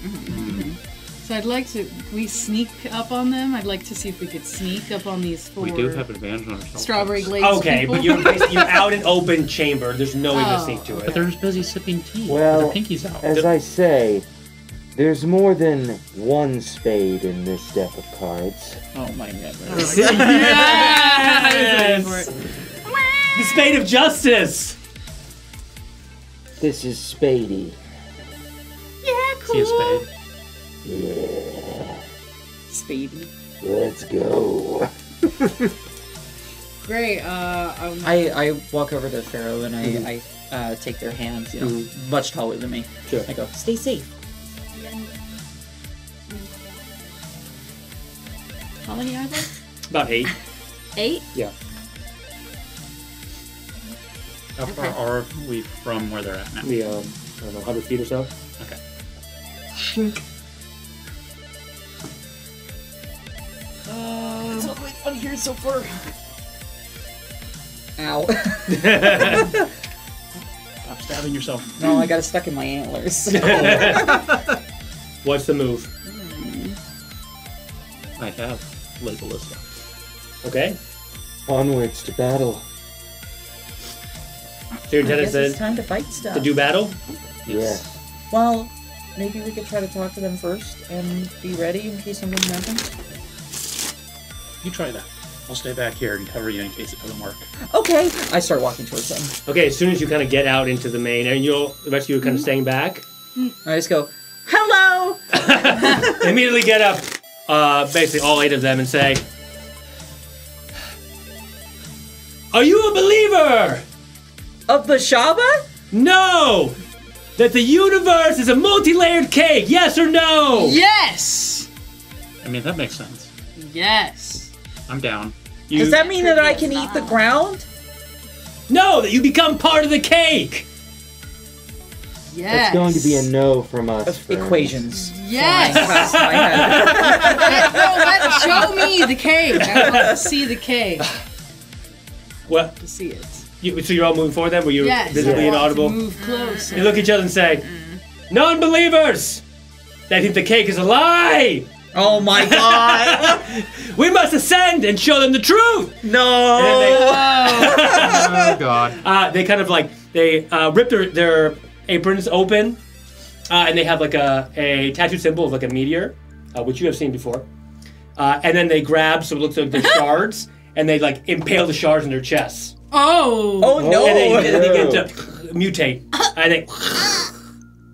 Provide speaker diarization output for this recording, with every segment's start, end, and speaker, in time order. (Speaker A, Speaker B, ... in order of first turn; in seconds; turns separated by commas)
Speaker A: 0.3-0.8, Speaker B: 0.5-6.1, Speaker A: 5.6-7.4, Speaker B: 6.8-9.1, Speaker C: 7.4-11.3, Speaker B: 10.3-11.1, Speaker A: 11.0-13.3, Speaker D: 12.3-14.3, Speaker D: 14.9-18.8, Speaker E: 18.9-21.0, Speaker B: 19.7-22.3, Speaker C: 19.8-22.3, Speaker B: 22.9-23.4, Speaker C: 23.4-24.8, Speaker D: 26.6-27.8, Speaker B: 29.0-30.1, Speaker A: 29.5-30.1, Speaker D: 30.9-32.0, Speaker B: 32.7-33.3, Speaker D: 33.6-35.5, Speaker B: 36.8-38.4, Speaker E: 38.0-44.1, Speaker C: 41.6-41.9, Speaker F: 48.8-49.5, Speaker C: 49.9-50.3, Speaker F: 51.0-51.2, Speaker A: 54.6-56.7, Speaker C: 56.6-58.3, Speaker B: 63.9-64.8, Speaker E: 64.5-65.3, Speaker E: 68.0-69.5, Speaker C: 68.7-69.5, Speaker A: 70.8-71.7, Speaker E: 71.8-74.2, Speaker C: 73.3-74.2, Speaker A: 74.1-74.5, Speaker C: 75.2-75.9, Speaker A: 78.2-79.7, Speaker C: 80.4-80.8, Speaker D: 81.5-82.7, Speaker C: 84.9-85.6, Speaker E: 85.0-86.5, Speaker C: 86.3-87.0, Speaker A: 87.5-87.8, Speaker D: 87.5-87.9, Speaker E: 88.3-92.9, Speaker A: 94.6-97.5, Speaker E: 97.7-99.4, Speaker C: 99.5-103.0, Speaker E: 103.6-106.3, Speaker C: 105.3-109.2, Speaker C: 112.5-113.8, Speaker E: 114.7-115.6, Speaker C: 115.9-116.8, Speaker C: 117.4-120.8, Speaker B: 120.5-121.7, Speaker A: 122.4-123.3, Speaker B: 123.6-124.5, Speaker A: 124.9-125.8, Speaker E: 125.7-127.7, Speaker F: 125.8-127.2, Speaker C: 128.7-130.7, Speaker B: 132.3-133.3, Speaker D: 132.5-134.9, Speaker E: 134.1-139.0, Speaker B: 134.9-141.1, Speaker C: 135.9-137.5, Speaker E: 139.7-140.3, Speaker C: 142.5-142.8, Speaker B: 142.8-143.5, Speaker C: 143.6-146.1, Speaker B: 144.8-147.1, Speaker D: 145.2-145.6, Speaker F: 146.2-147.0, Speaker C: 146.7-147.7, Speaker F: 147.6-148.0, Speaker C: 148.3-149.4, Speaker C: 150.1-162.8, Speaker E: 151.9-153.5, Speaker E: 156.0-158.4, Speaker A: 157.9-159.0, Speaker C: 163.5-167.5, Speaker C: 168.2-172.8, Speaker B: 172.9-173.8, Speaker E: 173.6-175.0, Speaker D: 173.8-175.1, Speaker C: 173.8-177.3